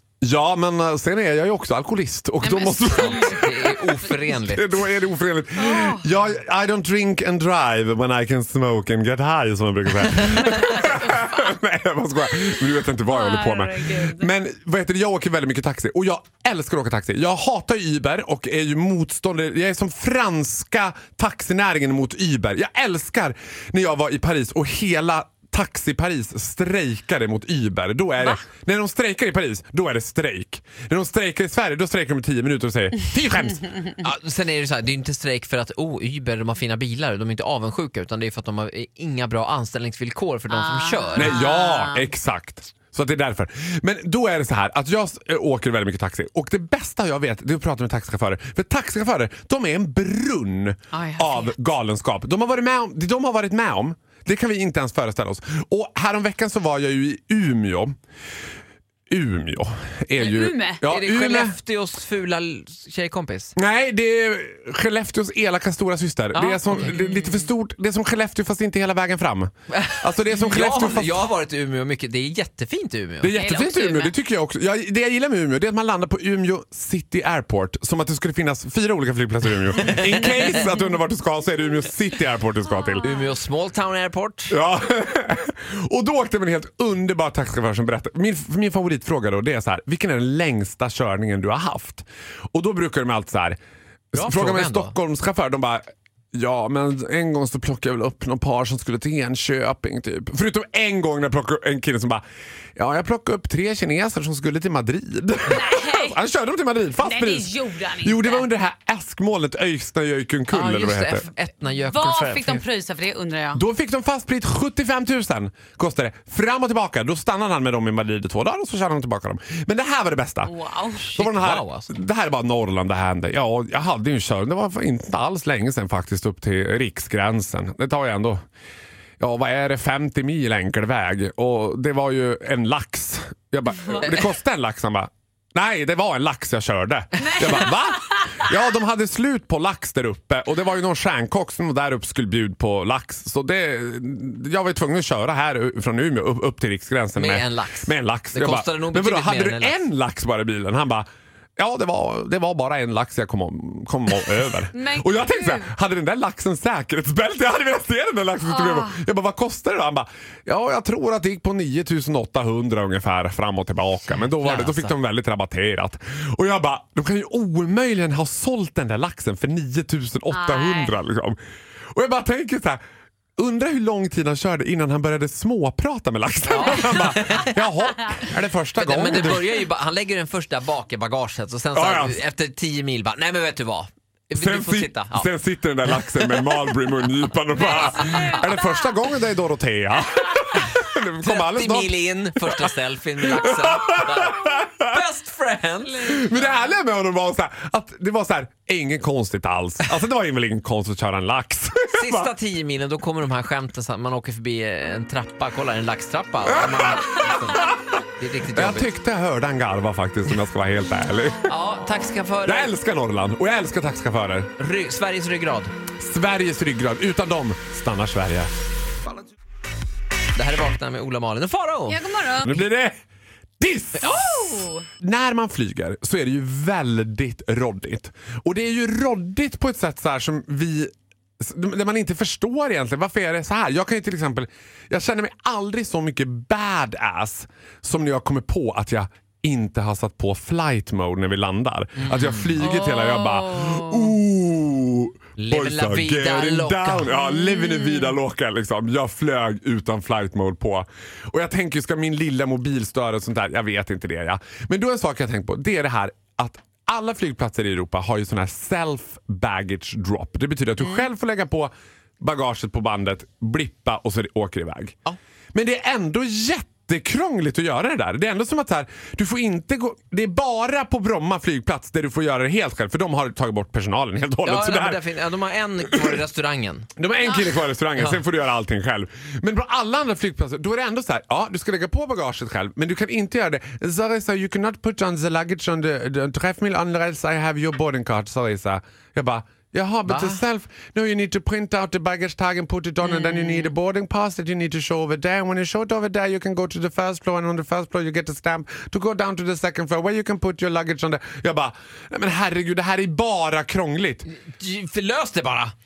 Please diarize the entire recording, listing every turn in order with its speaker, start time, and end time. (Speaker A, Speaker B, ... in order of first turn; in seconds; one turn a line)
Speaker A: 0.2-3.6
Speaker B: 2.4-3.4
Speaker C: 2.5-4.7
Speaker A: 4.2-33.7
Speaker B: 5.6-6.0
Speaker B: 10.2-11.5
Speaker B: 13.1-14.3
Speaker C: 34.0-41.4
Speaker B: 40.5-42.1
Speaker A: 41.1-57.9
Speaker B: 50.9-51.5
Speaker A: 59.1-61.5
Speaker B: 60.2-60.8
Speaker C: 60.8-63.5
Speaker A: 63.5-71.3
Speaker C: 66.3-67.3
Speaker C: 69.7-73.4
Speaker A: 73.2-83.1
Speaker B: 73.4-74.1
Speaker C: 79.8-80.4
Speaker C: 83.0-84.6
Speaker A: 84.5-93.6
Speaker A: 94.1-102.2
Speaker C: 94.1-94.9
Speaker A: 102.8-111.3
Speaker B: 105.5-106.2
Speaker B: 107.0-108.5
Speaker C: 110.5-112.6
Speaker B: 111.8-113.6
Speaker A: 113.5-120.5
Speaker B: 120.4-121.1
Speaker C: 121.0-121.9
Speaker A: 121.1-128.4
Speaker A: 129.2-171.4
Speaker B: 137.4-138.3
Speaker C: 147.2-149.8
Speaker B: 154.7-155.7
Speaker B: 158.4-158.9
Speaker C: 164.1-165.0
Speaker B: 170.3-171.0
Speaker A: 171.9-172.8
Speaker A: 173.4-179.6
Speaker C: 176.5-177.6
Speaker C: 178.7-185.3
Speaker A: 181.7-182.2
Speaker A: 184.3-192.7
Speaker C: 185.8-186.6
Speaker B: 187.6-188.7
Speaker C: 187.7-188.4
Speaker C: 191.2-196.3
Speaker A: 193.2-195.0
Speaker A: 195.9-202.3
Speaker C: 201.9-208.9
Speaker A: 206.5-207.7
Speaker A: 208.5-211.5
Speaker C: 211.5-212.7
Speaker A: 212.4-214.5
Speaker C: 214.6-215.7
Speaker A: 216.0-218.5
Speaker C: 220.3-222.0
Speaker B: 221.9-222.6
Speaker A: 222.4-222.9
Speaker A: 223.6-265.0
Speaker B: 224.0-224.9
Speaker C: 242.0-242.6
Speaker B: 242.9-243.8
Speaker C: 245.4-247.1
Speaker B: 247.4-248.1
Speaker A: 265.5-275.0
Speaker C: 274.4-276.9
Speaker A: 275.9-276.2
Speaker A: 276.9-304.3
Speaker C: 277.9-278.2
Speaker C: 290.1-290.4
Speaker C: 304.3-305.7